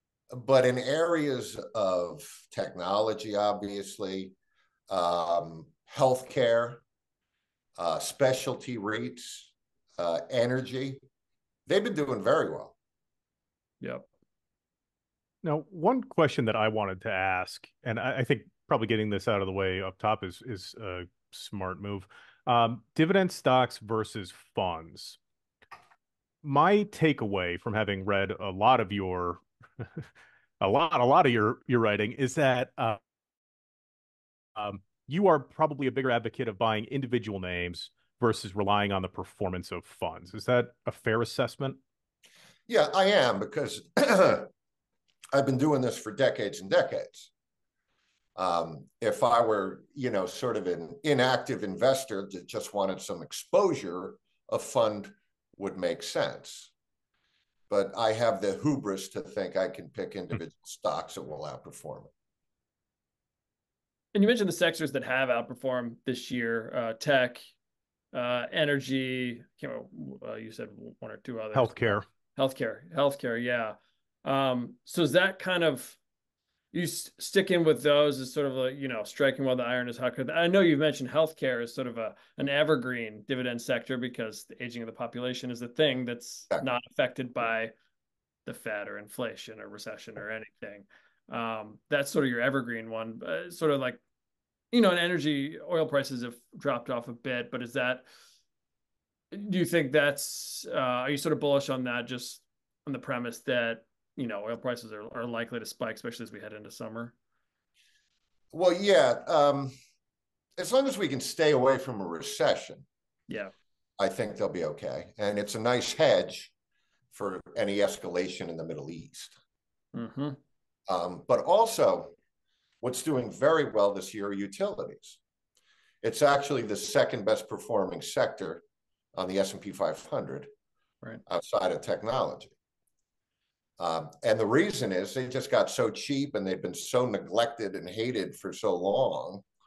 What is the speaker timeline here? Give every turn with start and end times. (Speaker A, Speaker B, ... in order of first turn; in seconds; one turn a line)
Speaker A: 0.3-4.3
Speaker A: 4.9-6.8
Speaker A: 7.8-11.0
Speaker A: 11.7-12.8
Speaker B: 13.8-14.1
Speaker C: 15.4-25.2
Speaker C: 26.4-30.1
Speaker C: 30.6-33.0
Speaker C: 34.6-41.8
Speaker A: 42.7-44.5
Speaker A: 45.3-47.3
Speaker A: 48.4-56.7
Speaker A: 57.7-62.1
Speaker B: 64.1-67.5
Speaker B: 68.1-76.0
Speaker C: 71.5-72.0
Speaker B: 76.7-87.7
Speaker B: 88.5-94.0
Speaker B: 94.7-98.0
Speaker B: 99.3-107.1
Speaker A: 108.5-109.7
Speaker A: 110.6-112.8
Speaker A: 114.0-116.5
Speaker A: 117.1-119.3
Speaker B: 119.9-120.4
Speaker A: 120.9-122.1
Speaker A: 122.8-125.2
Speaker A: 126.0-128.6
Speaker A: 129.2-130.5
Speaker A: 131.3-132.5
Speaker A: 133.8-139.4